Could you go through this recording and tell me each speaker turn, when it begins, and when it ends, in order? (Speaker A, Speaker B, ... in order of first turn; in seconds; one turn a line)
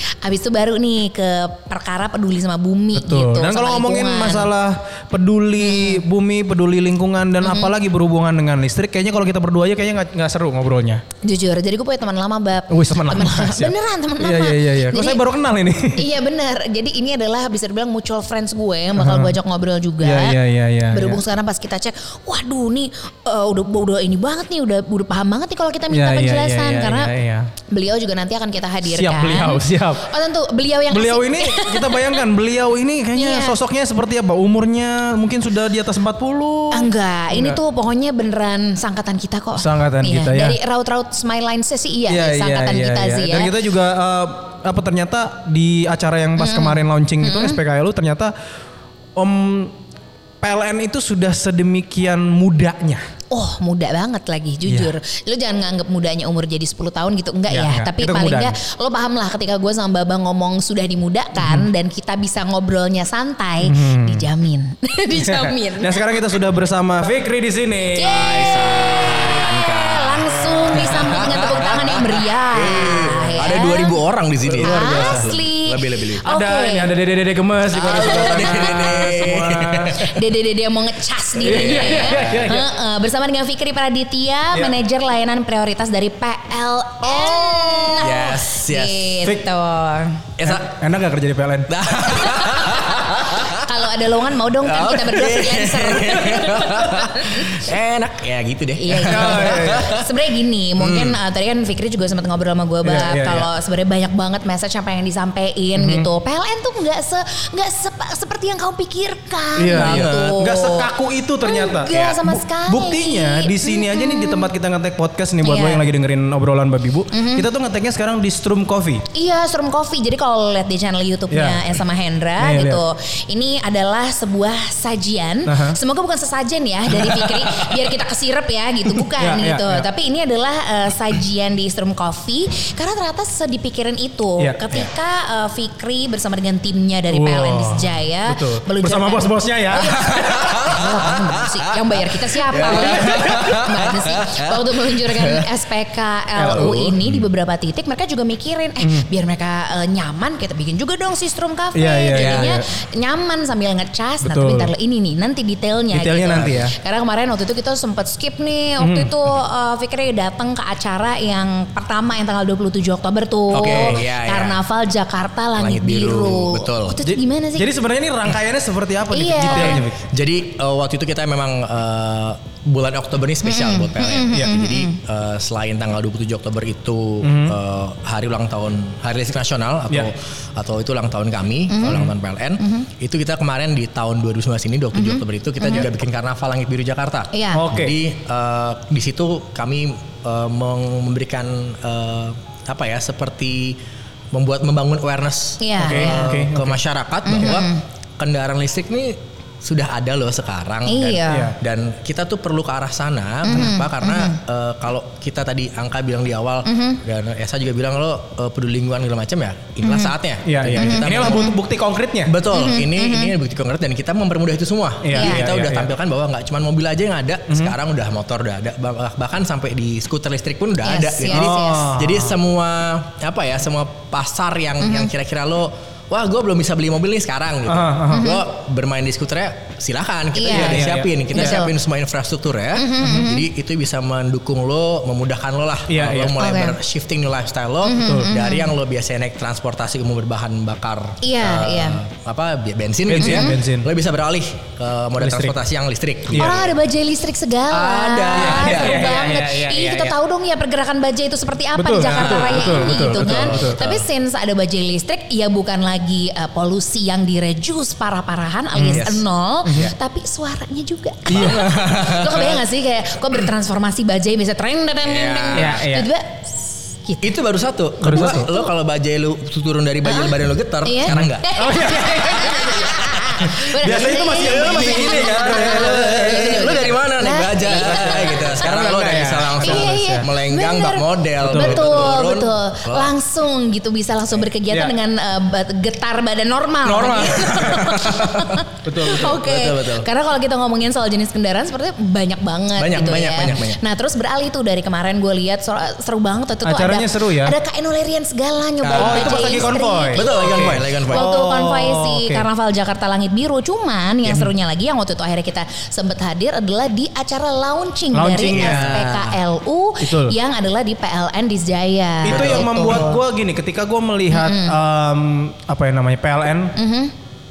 Speaker A: 0.2-4.5
Speaker B: 3.0-11.0
Speaker A: 5.6-6.0
Speaker A: 7.4-7.7
Speaker A: 11.2-15.2
Speaker B: 12.7-16.1
Speaker A: 15.9-20.4
Speaker B: 19.0-19.4
Speaker B: 20.0-21.2
Speaker A: 20.9-27.1
Speaker B: 25.9-27.5
Speaker A: 27.7-32.2
Speaker B: 28.8-30.1
Speaker B: 30.9-37.6
Speaker A: 33.1-33.6
Speaker A: 36.7-43.5
Speaker B: 39.6-40.6
Speaker B: 42.1-48.3
Speaker A: 46.4-47.6
Speaker B: 49.2-49.7
Speaker B: 50.4-53.0
Speaker A: 53.3-66.0
Speaker B: 54.7-54.9
Speaker B: 57.5-58.6
Speaker B: 61.4-61.7
Speaker B: 63.6-64.3
Speaker B: 65.2-68.2
Speaker A: 68.0-74.0
Speaker C: 68.0-76.3
Speaker B: 74.5-75.3
Speaker A: 74.6-76.9
Speaker B: 76.3-80.0
Speaker A: 77.8-79.3
Speaker C: 77.8-80.1
Speaker A: 80.0-90.3
Speaker B: 81.4-82.7
Speaker C: 81.5-82.6
Speaker C: 87.1-89.3
Speaker C: 90.4-90.7
Speaker B: 90.4-91.7
Speaker C: 91.7-93.7
Speaker A: 92.1-97.7
Speaker C: 94.6-100.1
Speaker A: 98.8-110.9
Speaker B: 99.0-99.9
Speaker C: 100.8-101.2
Speaker B: 102.8-103.5
Speaker B: 105.8-106.1
Speaker B: 109.6-119.1
Speaker C: 109.7-110.3
Speaker A: 111.4-114.5
Speaker A: 115.4-115.8
Speaker A: 117.1-117.5
Speaker A: 119.1-167.7
Speaker B: 121.3-121.6
Speaker B: 122.4-122.8
Speaker B: 125.5-125.8
Speaker B: 128.9-129.9
Speaker B: 137.1-140.3
Speaker C: 139.9-145.5
Speaker B: 142.7-143.4
Speaker B: 146.4-146.9
Speaker C: 146.4-147.2
Speaker B: 148.8-149.1
Speaker B: 151.8-152.7
Speaker C: 152.1-152.5
Speaker B: 154.2-154.7
Speaker B: 155.9-156.8
Speaker C: 156.3-156.6
Speaker B: 158.8-159.1
Speaker C: 163.5-164.6
Speaker B: 163.6-164.0
Speaker C: 165.6-167.0
Speaker B: 167.0-170.0
Speaker A: 169.1-169.8
Speaker C: 169.5-193.8
Speaker A: 173.4-175.0
Speaker B: 177.2-177.6
Speaker A: 181.7-182.9
Speaker A: 184.9-185.9
Speaker A: 187.3-187.6
Speaker B: 187.5-188.0
Speaker C: 194.3-211.5
Speaker A: 195.6-196.3
Speaker B: 195.8-196.8
Speaker A: 197.3-197.8
Speaker A: 200.9-201.5
Speaker B: 201.3-201.6
Speaker A: 203.4-204.4
Speaker A: 206.7-207.0
Speaker A: 209.8-210.2
Speaker B: 210.4-212.3
Speaker A: 210.8-211.6
Speaker C: 212.3-246.7
Speaker A: 212.5-213.3
Speaker B: 215.0-215.9
Speaker A: 215.1-215.5
Speaker B: 217.5-217.7
Speaker A: 220.8-221.9
Speaker B: 221.3-222.4
Speaker B: 227.7-228.3
Speaker A: 228.1-228.4
Speaker A: 230.3-231.7
Speaker B: 230.5-231.6
Speaker A: 232.8-233.4
Speaker B: 233.0-233.3
Speaker B: 235.9-236.4
Speaker A: 236.4-236.8
Speaker A: 237.8-238.7
Speaker B: 238.0-238.3
Speaker A: 241.2-242.0
Speaker B: 243.1-243.9
Speaker A: 243.2-243.5
Speaker B: 245.2-245.6
Speaker B: 246.3-246.6
Speaker A: 246.4-267.2
Speaker C: 247.7-250.0
Speaker B: 248.3-250.1
Speaker B: 251.8-253.8
Speaker C: 252.0-254.1
Speaker B: 258.7-259.1
Speaker C: 258.9-259.9
Speaker B: 259.7-259.9
Speaker B: 261.3-261.8
Speaker C: 261.3-262.6
Speaker C: 265.1-265.8
Speaker B: 265.5-266.1
Speaker C: 267.2-271.5
Speaker B: 268.0-268.5
Speaker A: 268.2-268.7
Speaker A: 270.1-270.3
Speaker A: 270.9-278.6
Speaker B: 271.1-276.9
Speaker C: 273.8-283.1
Speaker B: 277.6-280.3
Speaker A: 279.6-313.2
Speaker B: 281.4-282.2
Speaker B: 284.7-285.0
Speaker C: 286.9-290.1
Speaker B: 288.9-289.4
Speaker C: 292.8-293.8
Speaker B: 296.6-297.6
Speaker C: 298.8-301.3
Speaker B: 298.9-302.5
Speaker B: 308.1-309.0
Speaker C: 308.4-309.4
Speaker B: 310.0-310.4
Speaker B: 312.2-316.8
Speaker C: 312.2-313.1
Speaker A: 314.3-314.8
Speaker A: 316.8-317.1